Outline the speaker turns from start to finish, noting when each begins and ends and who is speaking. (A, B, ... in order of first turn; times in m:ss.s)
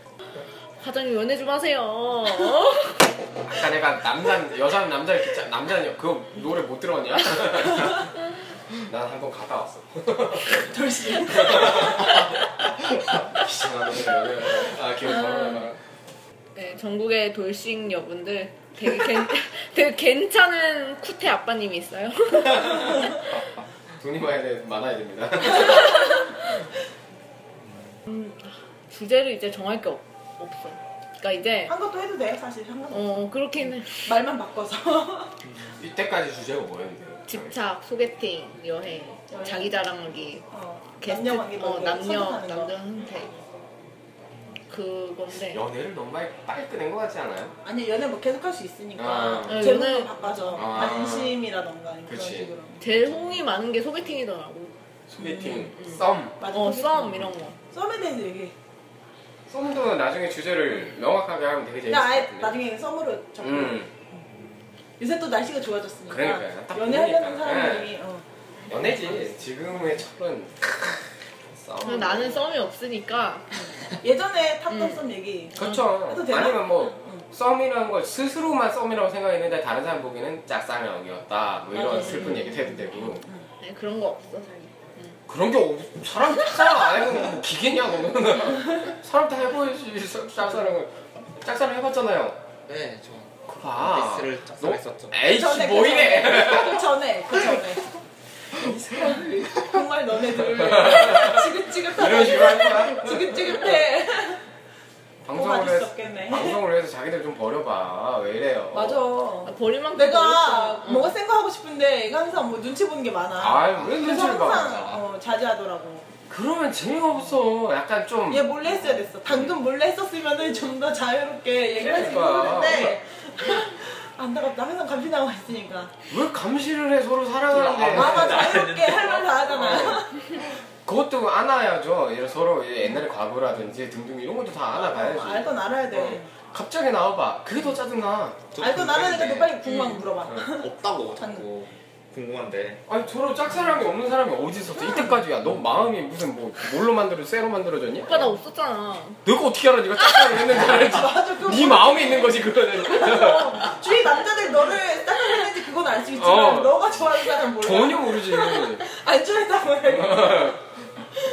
0:00.8-0:03.0 A
0:03.4-0:08.1 B
0:08.8-0:10.7 B
0:10.6-0:12.2 C
0:11.2-0:12.4 B
0:12.9-0:15.8 B
0:15.1-0:15.6 A
0:16.6-0:23.2 A
0:24.0-0:26.3 B
0:28.1-0:31.7 A
0:31.7-0:35.3 C
0:32.9-0:34.1 A
0:35.8-0:37.5 B
0:37.3-0:40.5 A
0:39.3-0:39.8 C
0:40.5-0:42.7 C
0:41.0-0:43.3 A
0:44.7-0:45.6 A
0:45.5-0:47.5 B
0:47.6-0:52.9 C
0:49.0-0:49.8 B
0:49.4-0:50.6 A
0:50.6-0:51.4 B
0:52.1-0:52.5 B
0:52.8-0:54.7 A
0:55.1-0:56.4 B
0:55.2-0:55.7 C
0:55.7-0:57.6 A
0:56.4-0:58.5 C
0:59.5-1:02.6 B
1:01.9-1:04.2 C
1:03.4-1:03.9 B
1:05.0-1:08.2 C
1:06.1-1:07.9 B
1:08.7-1:12.5 B
1:11.8-1:13.6 A
1:13.5-1:17.2 C
1:14.7-1:15.0 A
1:15.6-1:23.2 B
1:21.8-1:22.3 C
1:21.8-1:22.7 A
1:23.1-1:23.4 C
1:23.6-1:25.1 A
1:25.3-1:32.4 B
1:32.7-1:35.2 D
1:33.5-1:36.8 B
1:35.2-1:37.9 C
1:38.5-1:44.4 C
1:40.5-1:43.9 B
1:45.2-1:49.0 B
1:45.3-1:46.6 C
1:48.7-1:56.1 C
1:49.4-1:51.1 A
1:53.4-1:55.0 B
1:56.3-1:58.5 B
1:58.3-2:06.0 C
1:59.3-1:59.5 B
2:01.8-2:03.0 B
2:06.1-2:08.6 B
2:07.5-2:10.0 D
2:07.8-2:10.4 C
2:09.6-2:10.0 B
2:10.8-2:18.6 B
2:14.7-2:16.3 C
2:18.5-2:19.5 D
2:18.6-2:21.5 C
2:19.6-2:20.0 A
2:20.5-2:22.8 D
2:22.9-2:28.3 B
2:28.0-2:29.2 A
2:29.2-2:33.7 B
2:30.5-2:40.6 C
2:36.2-2:36.8 B
2:37.5-2:38.8 B
2:39.9-2:40.6 B